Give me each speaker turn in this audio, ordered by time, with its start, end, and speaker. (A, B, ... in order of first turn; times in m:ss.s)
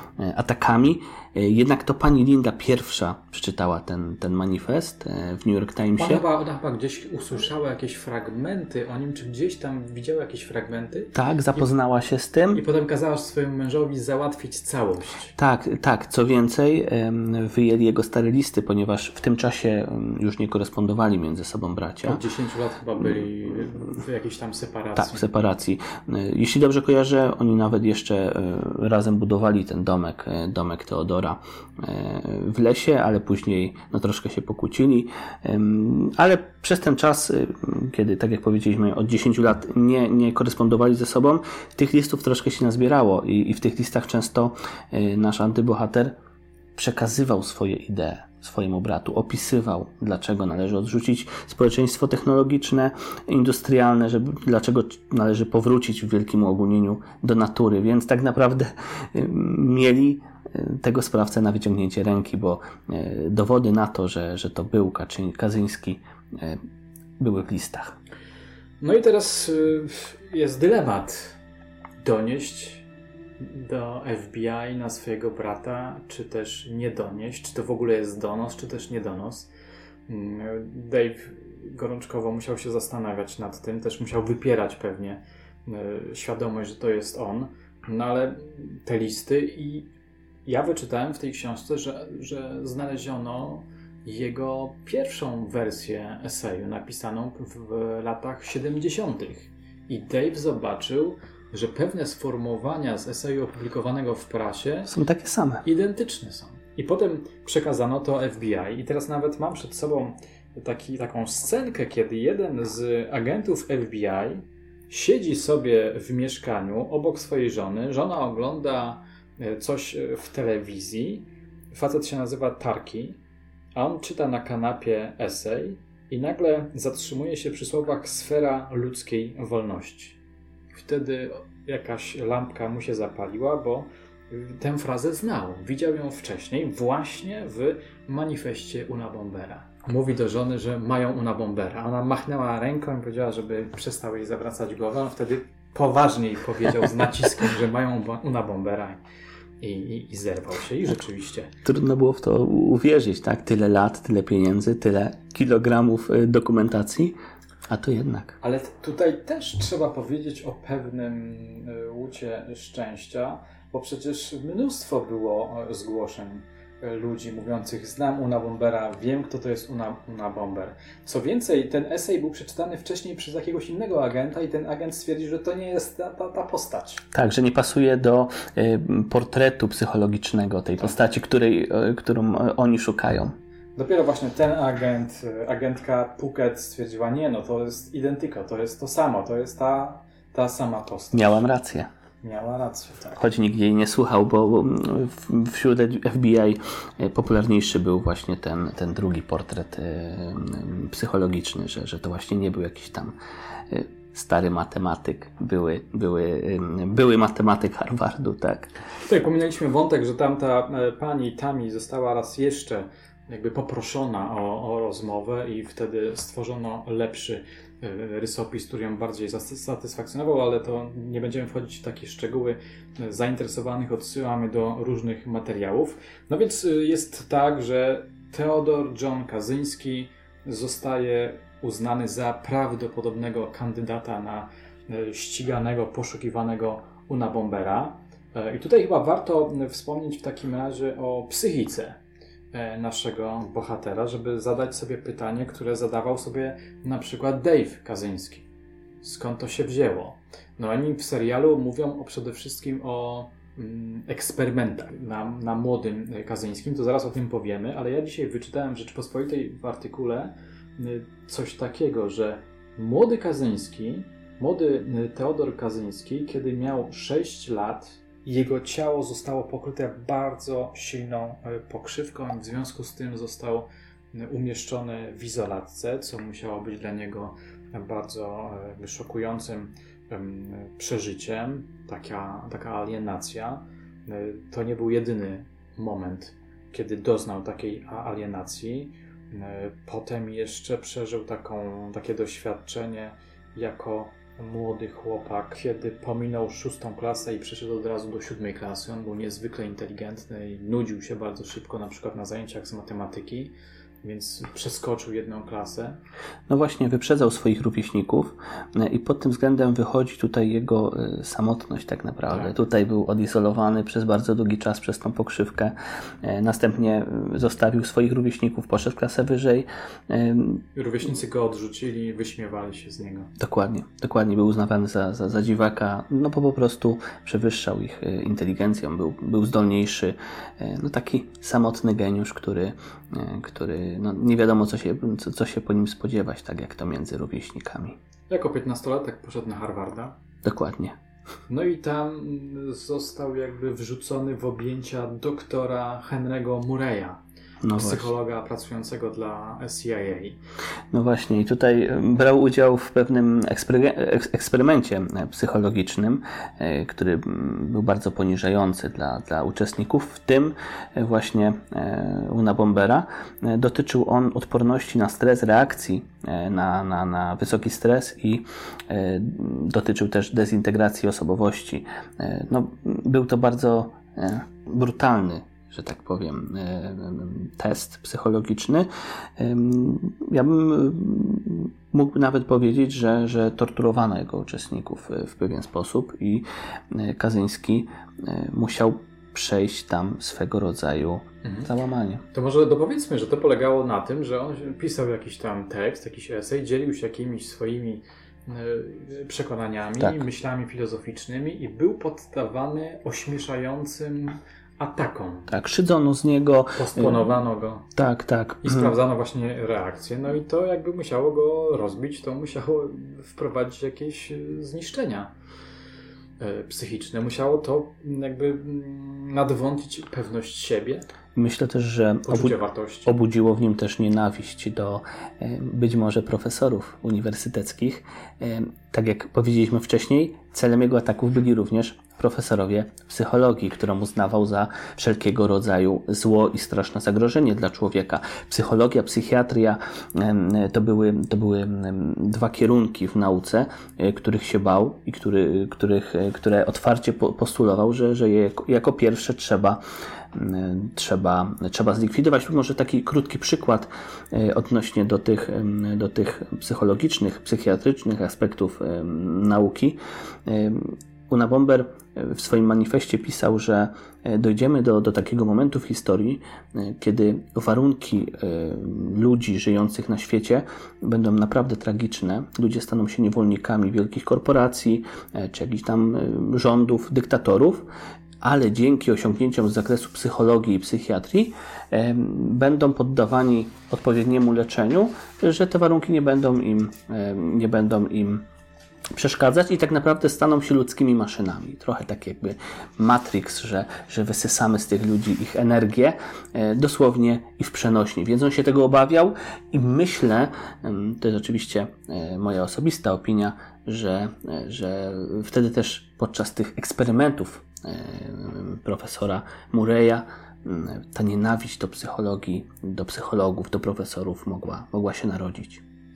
0:00.2-0:06.2 A
0:06.0-0:11.7 B
0:11.1-0:12.6 A
0:12.5-0:15.3 B
0:15.4-0:22.2 A
0:22.0-0:25.3 B
0:25.0-0:46.1 A
0:46.7-1:06.6 A
1:07.2-1:08.0 A
1:08.8-1:11.4 B
1:12.0-1:12.9 B
1:13.4-1:19.5 B
1:20.1-1:29.9 B
1:30.4-1:44.9 B
1:44.9-1:45.7 A
1:45.6-2:03.2 B
2:03.7-2:10.2 B
2:10.7-2:29.0 B
2:29.6-2:31.5 B
2:31.6-2:37.2 A
2:37.7-2:38.4 A
2:38.4-2:57.1 B
2:57.1-3:03.4 A
3:03.8-3:11.4 B
3:11.1-3:11.9 A
3:12.2-3:13.2 B
3:13.2-3:23.1 A
3:23.7-3:28.7 A
3:29.1-4:02.0 B
4:02.5-4:08.5 B
4:09.0-5:06.0 B
5:06.5-5:20.6 A
5:12.3-5:12.5 B
5:20.7-5:23.3 B
5:23.4-5:38.0 A
5:38.3-5:40.2 B
5:40.4-5:41.0 A
5:41.5-5:47.2 B
5:47.6-5:48.1 A
5:47.7-5:50.4 B
5:50.9-6:32.2 A
6:31.4-6:31.7 B
6:32.3-6:45.5 B
6:45.5-6:47.3 A
6:46.8-6:47.9 B
6:48.0-6:49.0 A
6:48.6-6:55.4 B
6:56.4-7:01.1 B
7:01.4-7:29.8 A
7:02.3-7:03.1 B
7:30.3-7:57.9 A
7:58.4-8:08.4 A
8:09.1-8:35.8 A